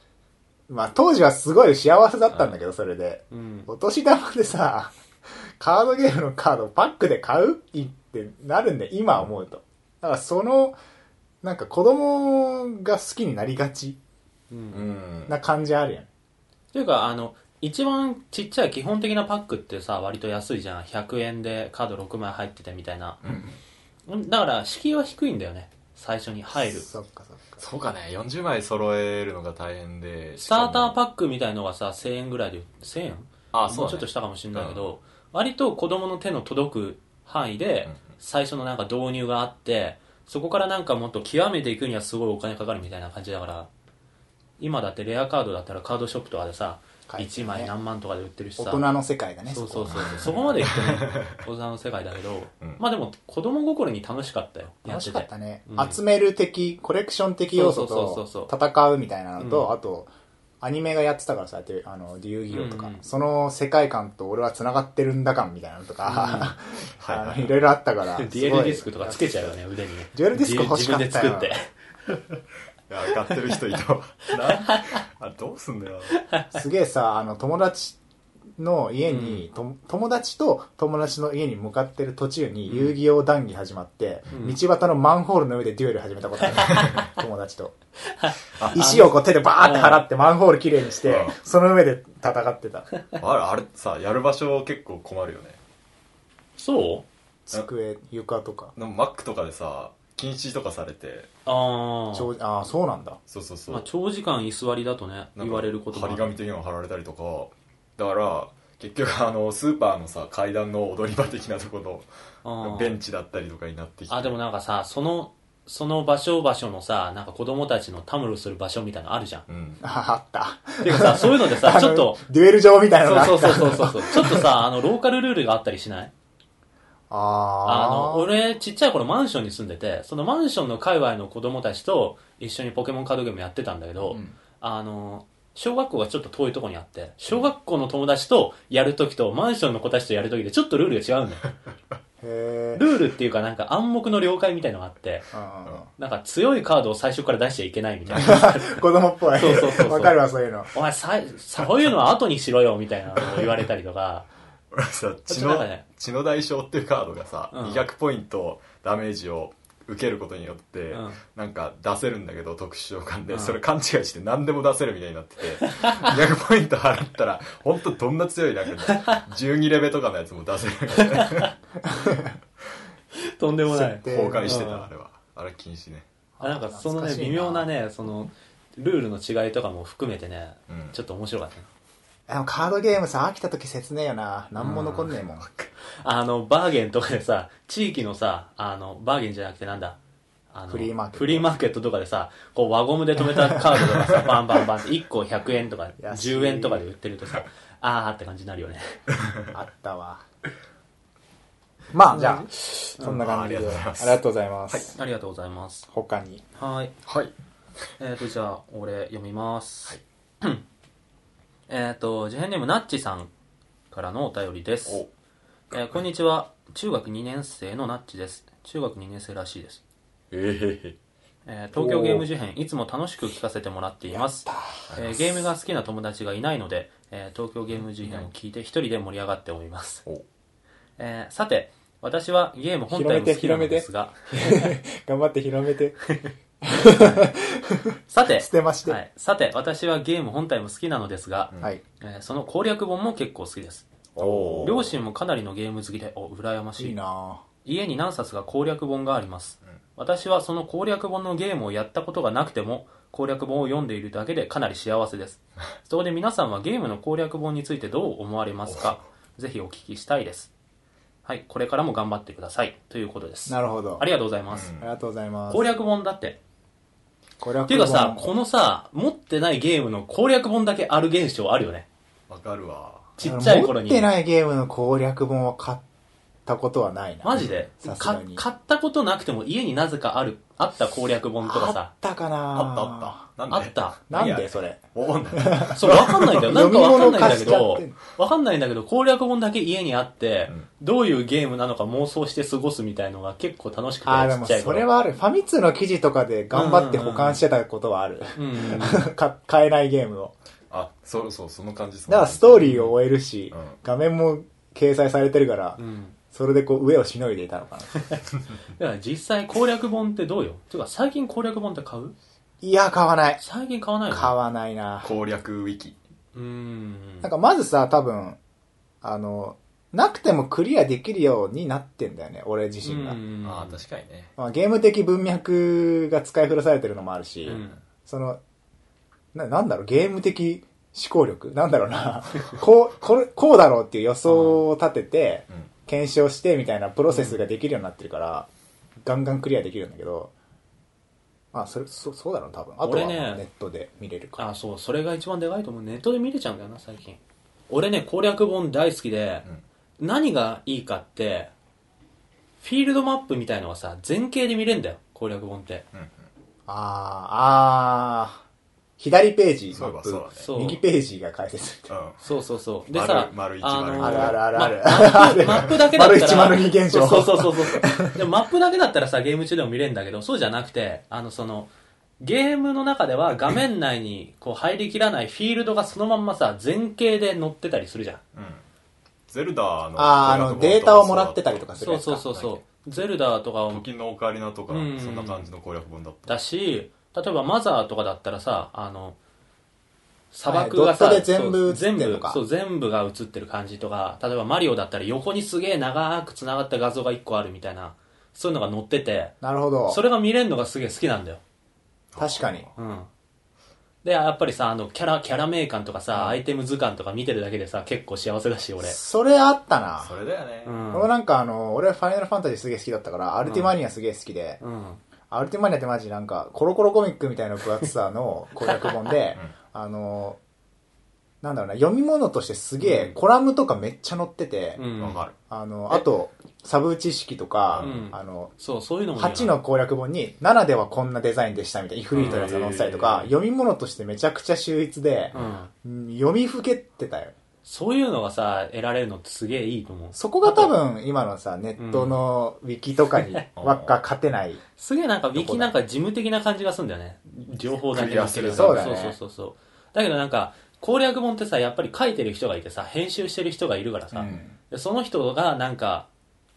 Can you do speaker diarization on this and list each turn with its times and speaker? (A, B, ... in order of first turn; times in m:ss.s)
0:00.7-0:10.8 A
0:03.3-0:03.7 B
0:11.4-0:14.0 A
0:14.5-0:14.8 B
0:14.7-0:15.3 C
0:15.3-0:16.1 A
0:16.7-0:23.2 B
0:23.2-0:23.5 C
0:24.1-0:26.9 B
0:26.5-0:27.6 A
0:27.6-0:31.0 C
0:30.4-0:43.7 B
0:33.5-0:34.9 C
0:44.6-0:48.8 B
0:47.1-0:47.7 A
0:48.6-0:50.6 A
0:49.5-0:56.0 B
0:49.9-0:51.4 C
0:54.8-1:00.1 A
0:57.5-0:58.5 B
0:59.4-0:59.7 B
1:00.6-1:09.5 A
1:02.5-1:03.0 B
1:06.0-1:06.5 B
1:07.0-1:07.6 C
1:08.2-1:11.7 B
1:10.1-1:11.5 A
1:12.9-1:16.2 C
1:14.4-1:15.0 B
1:16.2-1:16.6 B
1:16.5-1:18.0 A
1:18.6-1:27.7 A
1:19.1-1:19.4 B
1:24.3-1:24.6 B
1:26.5-1:27.1 B
1:26.7-1:27.1 C
1:28.1-1:30.0 B
1:28.6-1:28.9 C
1:28.7-1:32.9 A
1:31.0-1:31.4 C
1:33.2-1:35.6 C
1:36.6-1:37.0 B
1:37.4-1:38.7 A
1:38.7-1:41.3 C
1:41.4-1:42.3 B
1:42.1-1:43.2 A
1:43.3-1:43.9 C
1:43.7-1:46.3 B
1:45.4-1:52.1 C
1:52.4-1:52.9 B
1:52.6-1:54.4 C
1:54.1-1:59.4 B
1:59.5-1:59.8 C
1:59.8-2:04.6 A
2:00.8-2:02.2 B
2:03.0-2:06.1 B
2:07.1-2:08.3 A
2:07.6-2:21.5 B
2:14.1-2:14.4 A
2:22.2-2:22.8 A
2:22.7-2:25.3 B
2:25.3-2:25.9 A
2:26.0-2:30.2 B
2:28.0-2:28.4 C
2:28.1-2:30.7 A
2:30.7-2:34.3 B
2:34.7-2:51.5 C
2:35.3-2:35.8 B
2:37.5-2:37.8 B
2:40.9-2:41.2 B
2:43.3-2:43.6 B
2:45.6-2:46.1 B
2:48.9-2:49.2 B
2:51.0-2:51.5 B
2:51.8-2:52.4 A
2:53.2-2:54.9 B
2:53.7-2:54.7 A
2:54.0-2:56.1 C
2:56.4-2:57.7 A
2:56.4-3:01.7 B
3:00.7-3:01.0 C
3:02.3-3:05.5 A
3:04.6-3:05.1 B
3:05.4-3:05.7 C
3:06.0-3:10.0 B
3:10.5-3:19.0 B
3:10.7-3:11.5 A
3:16.0-3:16.8 A
3:19.1-3:19.5 C
3:19.5-3:20.2 A
3:21.9-3:24.9 A
3:22.1-3:22.5 B
3:23.0-3:23.2 B
3:23.2-3:24.9 C
3:24.9-3:25.9 B
3:25.9-3:26.4 A
3:26.5-3:26.9 B
3:27.0-3:27.3 C
3:28.0-3:30.6 B
3:31.7-3:33.3 B
3:33.9-3:35.0 B
3:35.7-3:39.8 B
3:40.3-3:41.0 C
3:41.4-3:50.0 B
3:41.7-3:42.2 C
3:44.1-3:44.9 A
3:44.9-3:45.2 C
3:48.0-3:48.3 C
3:51.0-3:54.7 B
3:52.9-3:56.0 A
3:56.6-3:59.0 A
3:56.9-3:57.3 B
3:58.1-4:03.9 B
4:04.2-4:04.8 A
4:04.2-4:04.9 C
4:04.6-4:07.0 B
4:06.8-4:07.4 A
4:07.6-4:20.5 B
4:18.7-4:19.0 C
4:21.2-4:24.7 B
4:23.5-4:24.0 A
4:24.5-4:24.9 C
4:24.8-4:25.6 A
4:25.5-4:26.4 B
4:27.4-4:28.3 A
4:27.7-4:31.9 B
4:32.3-4:33.1 C
4:33.2-4:34.1 B
4:33.2-4:35.8 A
4:36.4-4:38.4 A
4:37.2-4:41.9 B
4:37.3-4:37.6 C
4:41.4-4:43.2 A
4:42.5-4:47.6 C
4:43.5-4:44.0 B
4:44.1-4:44.8 A
4:45.3-4:47.9 A
4:45.7-4:54.8 B
4:54.0-5:00.3 A
4:56.5-4:57.4 B
4:58.4-4:59.1 B
5:00.7-5:02.8 C
5:02.1-5:05.8 A
5:02.6-5:02.9 B
5:03.5-5:03.8 C
5:05.8-5:06.2 B
5:06.3-5:08.2 A
5:08.8-5:12.1 B
5:12.6-5:13.4 A
5:13.4-5:14.3 B
5:14.1-5:15.1 A
5:15.0-5:16.0 C
5:16.3-5:17.3 B
5:17.2-5:18.4 A
5:19.0-5:23.2 A
5:22.8-5:23.8 B
5:23.4-5:24.3 C
5:24.4-5:28.4 A
5:27.4-5:27.8 B
5:29.3-5:38.5 A
5:34.2-5:34.6 B
5:37.1-5:37.4 B
5:39.0-5:40.3 A
5:41.5-5:44.4 A
5:42.8-5:43.4 B
5:44.4-5:47.2 B
5:47.7-5:49.4 B
5:50.0-5:51.5 B
5:52.6-5:55.8 B
5:55.9-5:56.2 C
5:56.7-5:58.4 A
5:59.0-6:01.9 A
5:59.7-6:00.5 C
6:00.3-6:00.8 B
6:01.9-6:02.2 C
6:02.2-6:18.2 B
6:02.9-6:04.4 C
6:04.0-6:08.2 A
6:18.3-6:18.6 C
6:19.3-6:23.0 C
6:20.0-6:22.2 A
6:21.8-6:23.8 B
6:23.7-6:26.3 C
6:24.7-6:25.4 B
6:26.3-6:29.2 B
6:30.3-6:39.4 B
6:30.5-6:32.4 A
6:39.4-6:40.0 A
6:39.9-6:41.4 B
6:42.1-6:42.7 C
6:42.2-6:42.7 A
6:42.8-6:43.1 B
6:44.0-6:49.0 B
6:46.1-6:46.4 A
6:48.8-6:50.2 A
6:50.0-6:50.8 C
6:50.6-6:51.1 B
6:50.9-6:54.6 A
6:53.4-6:53.8 B
6:54.6-6:55.0 B
6:55.3-7:00.4 A
6:58.6-6:59.1 B
7:01.4-7:04.8 A
7:02.8-7:03.2 B
7:04.8-7:05.2 B
7:05.0-7:05.3 C
7:05.4-7:08.5 A
7:07.7-7:08.0 C
7:07.8-7:09.6 B
7:09.2-7:17.3 A
7:12.1-7:12.5 B
7:12.2-7:13.3 C
7:15.3-7:15.7 B
7:17.6-7:20.7 B
7:20.1-7:24.6 A
7:21.8-7:22.2 B
7:23.6-7:23.9 C
7:24.8-7:36.1 B
7:25.3-7:25.7 A
7:27.9-7:29.0 C
7:28.5-7:29.2 A
7:34.1-7:34.6 A